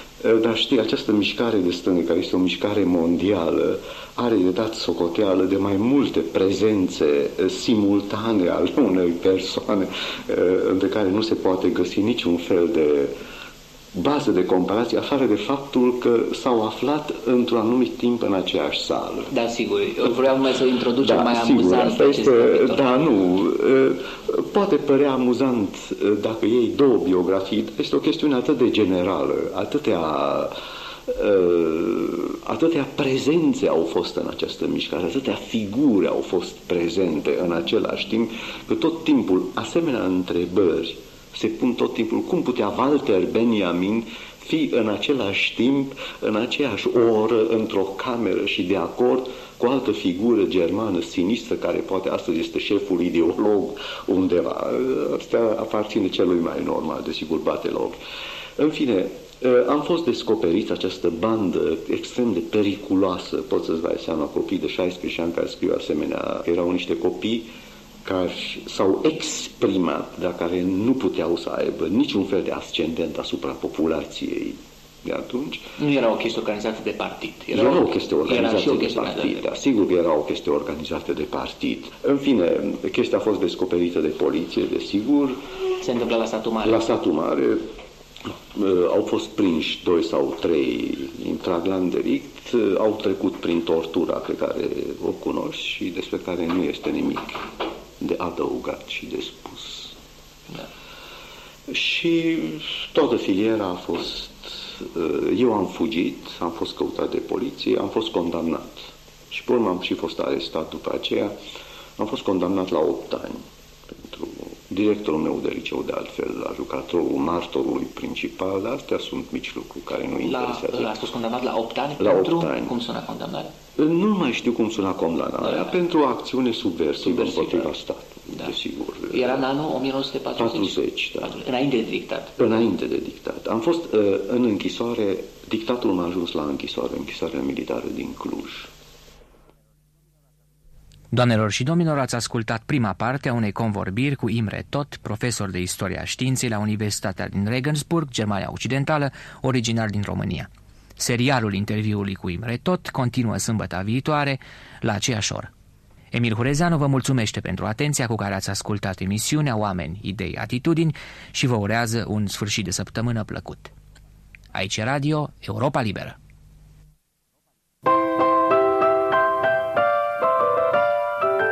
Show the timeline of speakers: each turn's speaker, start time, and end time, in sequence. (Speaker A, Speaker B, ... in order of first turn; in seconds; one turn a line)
Speaker A: 0.2-13.1
Speaker A: 13.9-19.3
Speaker B: 19.3-22.8
Speaker A: 21.0-30.5
Speaker A: 31.1-58.0
Speaker A: 58.6-67.5
Speaker A: 68.0-75.7
Speaker B: 75.8-79.4
Speaker A: 77.5-85.4
Speaker B: 85.8-86.8
Speaker A: 86.6-87.6
Speaker A: 88.5-97.4
Speaker A: 98.0-99.9
Speaker A: 101.7-111.3
Speaker A: 112.0-120.9
Speaker B: 120.2-123.5
Speaker A: 122.0-122.7
Speaker A: 123.8-129.4
Speaker B: 125.4-125.7
Speaker B: 127.0-127.7
Speaker B: 129.1-132.3
Speaker A: 130.3-131.3
Speaker A: 132.4-138.7
Speaker C: 141.1-155.5
Speaker C: 156.1-163.7
Speaker C: 164.5-166.2